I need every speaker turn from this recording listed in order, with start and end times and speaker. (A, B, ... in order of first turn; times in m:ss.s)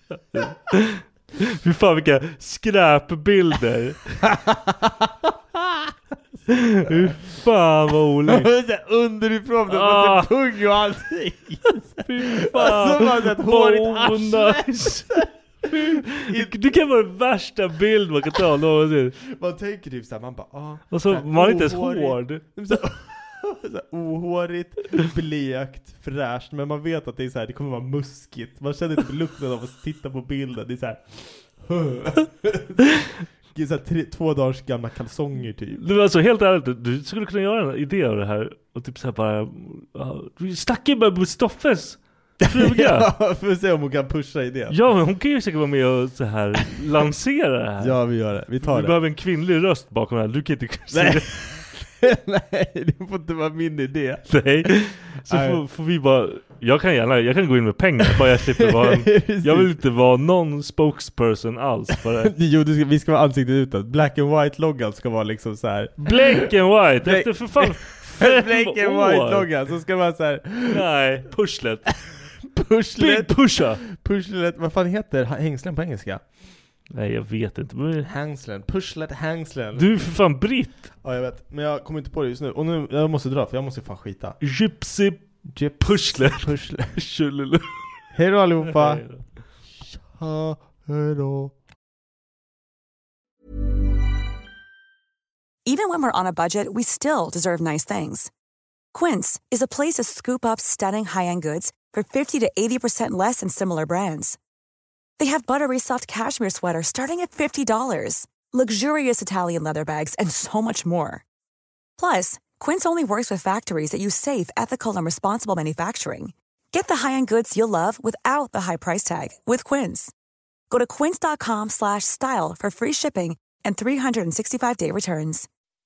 0:00.3-0:04.2 A
0:04.2-0:05.7 B
0:06.5-0:08.5 A
0:08.2-0:16.5 B
0:09.7-0:10.3 A
0:12.0-0:19.2 A
0:19.2-0:32.9 B
0:20.9-0:22.7 A
0:33.5-0:35.8 B
0:35.8-0:43.1 A
0:42.4-0:44.8 B
0:44.7-0:48.0 A
0:47.8-0:48.9 B
0:48.6-0:51.4 A
0:50.9-0:54.7 B
0:54.3-1:02.3 A
0:55.3-0:55.6 B
0:58.1-0:59.7 B
1:02.2-1:06.5 B
1:06.0-1:09.5 A
1:07.0-1:10.8 B
1:10.7-1:12.0 A
1:12.4-1:16.2 B
1:13.0-1:13.8 A
1:16.9-1:18.1 A
1:18.0-1:19.9 B
1:19.8-1:20.8 A
1:21.0-1:24.4 B
1:24.4-1:25.2 A
1:25.5-1:27.0 B
1:25.8-1:27.7 A
1:28.1-1:29.0 B
1:28.6-1:29.2 A
1:29.8-1:31.5 B
1:35.6-1:38.3 C
1:38.9-1:44.4 C
1:45.2-1:51.2 C
1:52.0-2:00.1 C
2:00.7-2:05.5 C